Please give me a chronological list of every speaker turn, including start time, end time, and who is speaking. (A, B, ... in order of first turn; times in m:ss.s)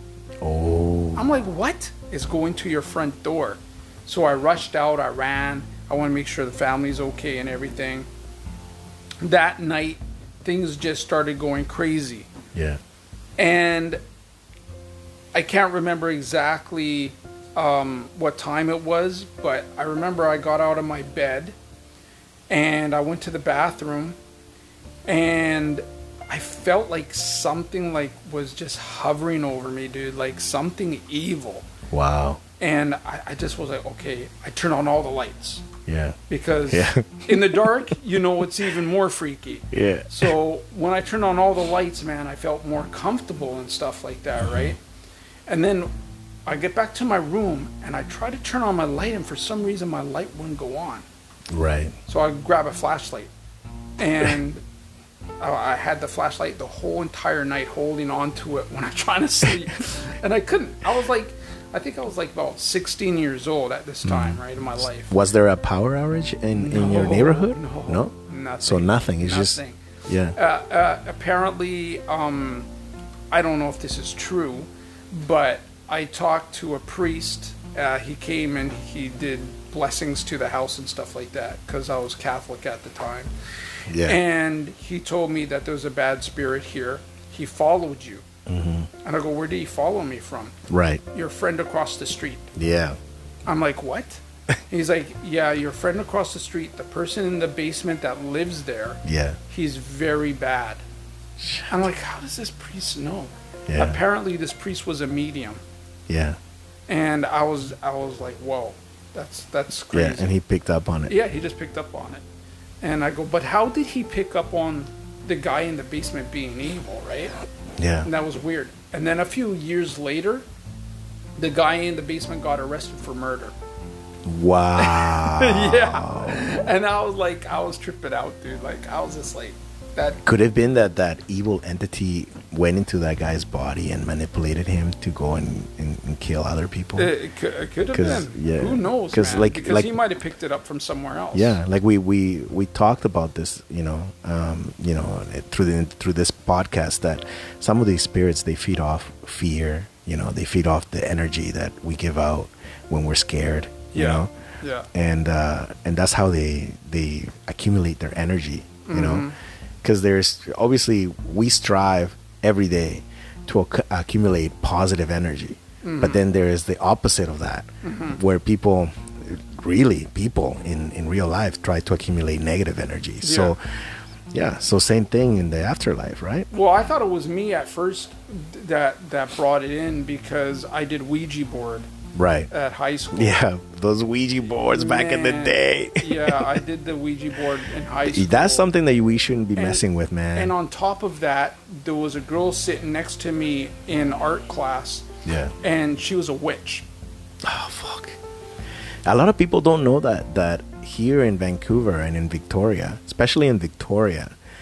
0:00.4-0:01.3 A
0:01.2-0:08.1 B
0:09.2-0:12.3 B
0:12.5-0:12.8 A
0:13.4-0:14.0 B
0:15.3-0:21.5 B
0:22.5-0:24.2 B
0:25.0-0:31.7 B
0:31.9-0:32.4 A
0:32.6-0:35.6 B
0:35.8-0:37.7 A
0:36.3-0:44.8 B
0:39.7-0:40.3 A
0:44.4-0:44.8 A
0:45.5-0:45.9 B
0:46.4-0:51.0 B
0:51.5-0:52.0 A
0:52.1-0:53.3 B
0:54.0-0:54.6 B
0:55.4-1:05.1 B
1:04.0-1:10.4 A
1:06.5-1:09.8 B
1:10.3-1:12.7 B
1:13.3-1:23.3 B
1:23.9-1:24.2 A
1:24.0-1:28.2 B
1:28.5-1:28.9 A
1:29.0-1:30.5 B
1:30.7-1:31.0 A
1:31.1-1:32.5 B
1:32.5-1:33.0 A
1:33.4-1:40.8 B
1:39.0-1:39.4 A
1:41.4-1:41.8 A
1:41.7-1:45.6 B
1:43.7-1:44.0 A
1:46.1-1:46.4 A
1:46.9-1:50.3 B
1:49.9-1:51.1 A
1:51.1-1:52.2 B
1:52.8-1:57.4 B
1:57.8-1:58.1 A
1:58.0-2:00.4 B
2:01.4-2:03.5 B
2:04.2-2:06.5 A
2:04.8-2:10.2 B
2:10.2-2:17.1 A
2:17.0-2:21.6 B
2:17.9-2:20.0 A
2:21.3-2:34.3 A
2:33.9-2:34.9 B
2:34.9-2:39.3 A
2:38.9-2:39.3 B
2:39.8-2:53.6 A
2:45.8-2:46.2 B
2:47.8-2:48.2 B
2:53.2-2:53.5 B
2:54.3-2:56.5 A
2:56.5-3:01.9 B
3:02.1-3:02.5 A
3:02.5-3:03.4 B
3:03.1-3:06.6 A
3:04.7-3:08.7 B
3:08.0-3:10.5 A
3:09.6-3:09.8 B
3:10.3-3:15.0 B
3:15.2-3:15.5 A
3:15.6-3:16.8 B
3:17.4-3:18.2 A
3:19.0-3:24.3 A